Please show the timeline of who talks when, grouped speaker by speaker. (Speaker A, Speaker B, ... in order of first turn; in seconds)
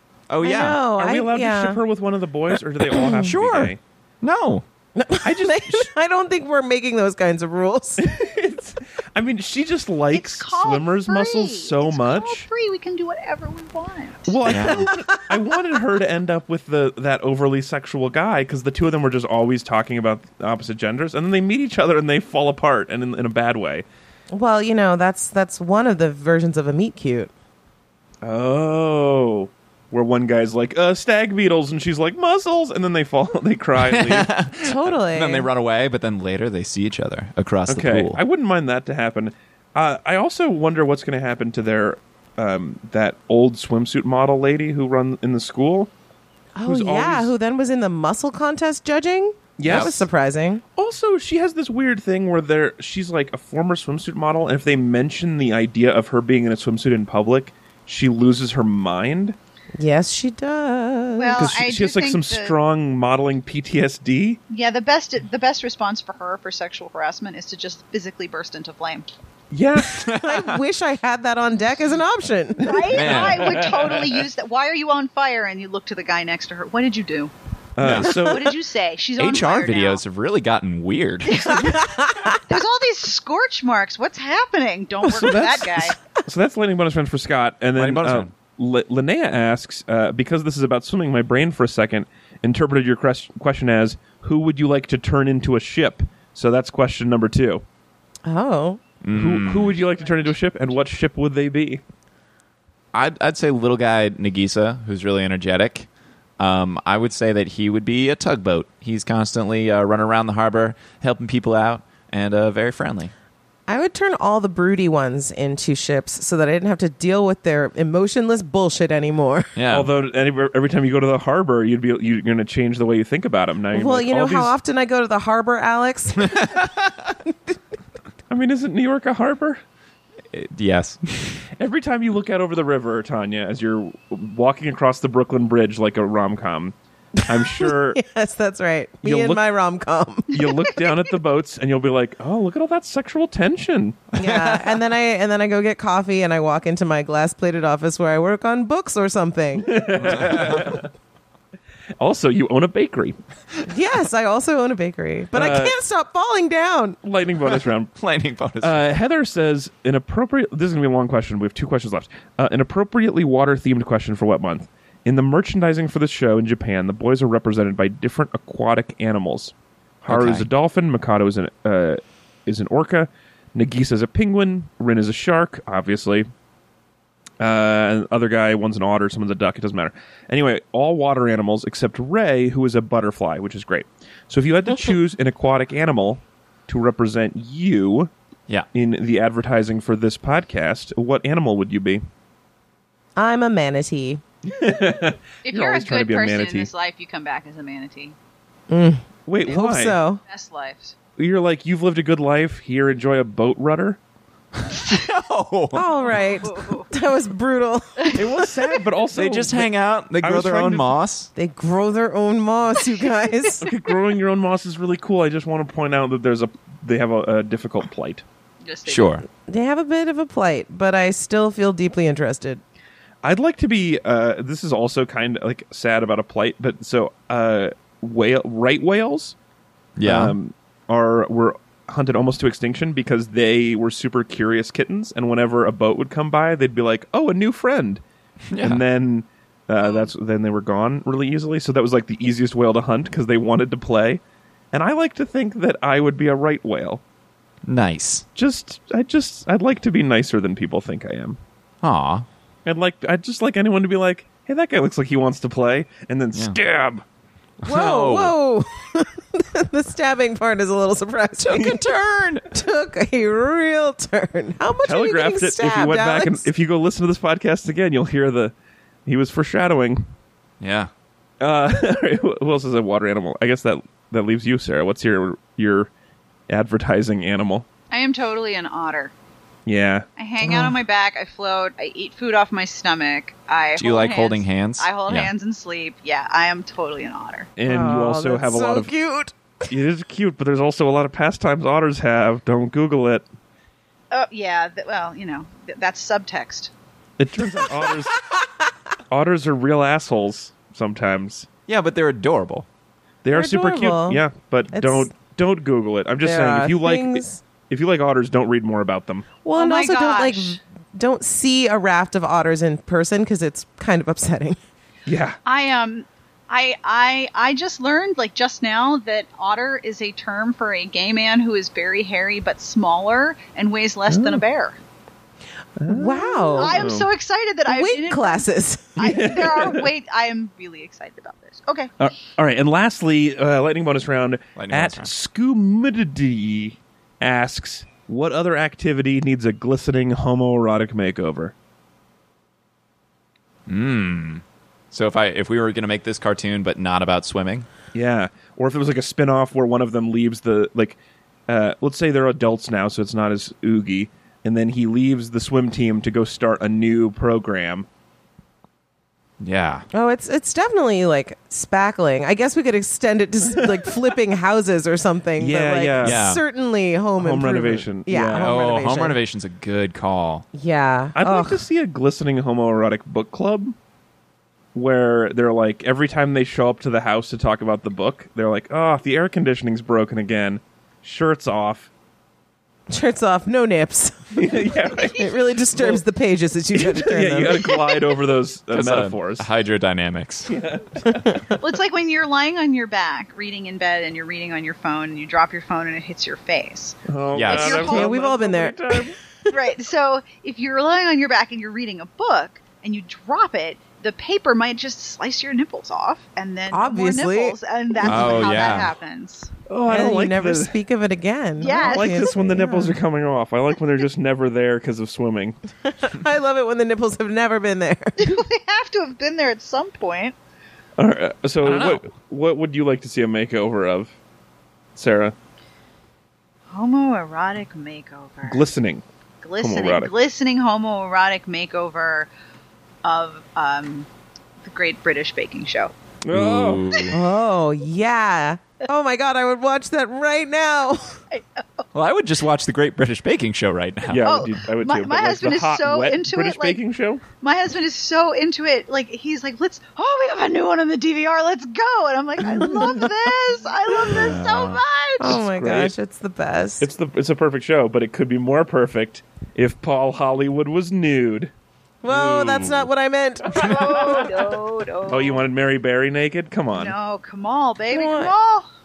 Speaker A: 0.3-0.8, 2.9-4.6, 14.4-14.9, 33.9-38.2, 49.6-50.0, 69.9-70.6, 72.9-73.5, 77.8-78.1, 79.2-81.6, 87.8-88.3, 99.0-99.8, 102.9-105.9, 106.4-113.1, 119.5-119.9, 126.2-126.7, 130.3-131.4, 144.2-144.6, 150.1-150.7, 157.9-158.8, 170.1-170.5, 204.7-206.3, 209.1-211.3, 218.9-219.2, 230.0-230.3, 238.5-238.8, 247.7-248.2, 251.8-252.2, 257.6-258.3, 261.5-262.5, 270.6-270.9, 283.8-285.3, 301.7-302.7, 334.6-335.1, 343.7-347.7, 359.4-359.9, 366.0-366.4, 368.3-370.4, 388.7-390.5, 397.3-397.8, 408.0-408.9, 421.6-422.0, 436.3-437.1, 441.9-444.2, 454.1-454.8, 462.1-462.7
Speaker B: 0.4-1.8, 3.0-3.3, 5.0-8.0, 14.8-15.3, 24.3-27.3, 34.6-35.5, 46.5-50.6, 59.8-61.5, 70.1-73.1, 81.5-82.6, 98.2-98.8, 113.7-119.5, 123.7-126.6, 127.2-127.6, 137.2-140.4, 144.2-150.2, 153.7-157.0, 193.2-194.2, 198.7-200.2, 205.7-208.5, 211.3-213.7, 219.5-222.6, 257.6-261.9, 262.5-266.5, 280.4-280.8, 287.6-289.7, 303.3-305.1, 306.2-307.4, 309.4-314.6, 325.9-326.8, 327.6-329.0, 359.9-369.2, 370.5-371.6, 382.9-388.0, 397.6-399.5, 406.7-408.7, 409.9-413.0, 415.9-418.4, 437.1-441.2, 452.7-453.0, 455.2-456.9, 462.0-464.3, 467.9-468.3
Speaker C: 0.9-3.8, 5.2-5.9, 8.0-12.5, 14.3-23.8, 28.2-34.3, 37.7-45.9, 46.6-47.3, 49.6-50.0, 50.8-59.4, 61.4-64.4, 69.5-70.0, 73.0-74.1, 77.8-78.6, 85.1-97.6, 99.1-101.8, 119.7-124.5, 128.3-129.6, 131.6-138.0, 139.0-139.4, 140.3-144.2, 149.6-150.9, 152.0-153.2, 155.3-155.8, 157.0-157.9, 158.6-176.3, 177.4-188.1, 188.7-192.0, 194.4-196.7, 199.2-200.0, 201.2-204.0, 208.1-211.0, 213.6-218.2, 223.2-229.3, 230.0-238.0, 238.6-244.2, 244.7-247.0, 248.3-251.4, 252.6-257.0, 264.8-268.5, 269.1-270.1, 271.4-275.9, 276.5-277.6, 279.6-280.1, 287.6-288.9, 289.7-293.2, 297.2-298.1, 299.1-301.5, 303.2-309.3, 315.1-315.4, 324.1-324.4, 325.8-327.1, 329.0-329.9, 332.0-341.5, 347.9-351.0, 351.5-357.9, 365.4-366.2, 367.2-368.5, 371.1-373.7, 374.7-381.9, 384.3-386.0, 386.7-389.5, 390.5-391.4, 397.1-399.1, 409.7-410.7, 411.6-415.6, 421.0-424.1, 424.9-425.3, 428.4-429.0, 429.6-430.1, 436.2-437.0, 444.1-447.2, 452.6-453.1, 454.1-454.4, 455.2-455.9, 456.8-461.5, 465.1-466.9
Speaker D: 10.1-14.7, 61.2-62.6, 64.5-69.1, 72.6-77.3, 78.0-80.0, 81.2-86.0, 195.4-198.2, 200.3-200.9, 206.1-206.9, 218.6-219.2, 239.8-240.1, 277.9-279.1, 280.2-287.5, 294.1-296.7, 309.5-310.6, 315.4-324.8, 326.6-331.9, 385.0-385.4, 391.5-398.1, 399.5-409.5, 411.6-412.4, 418.2-420.4, 426.7-428.6, 429.4-432.3, 433.0-434.1, 434.6-435.9, 441.3-441.8, 444.1-446.8, 447.4-455.4, 463.5-465.4, 466.7-468.7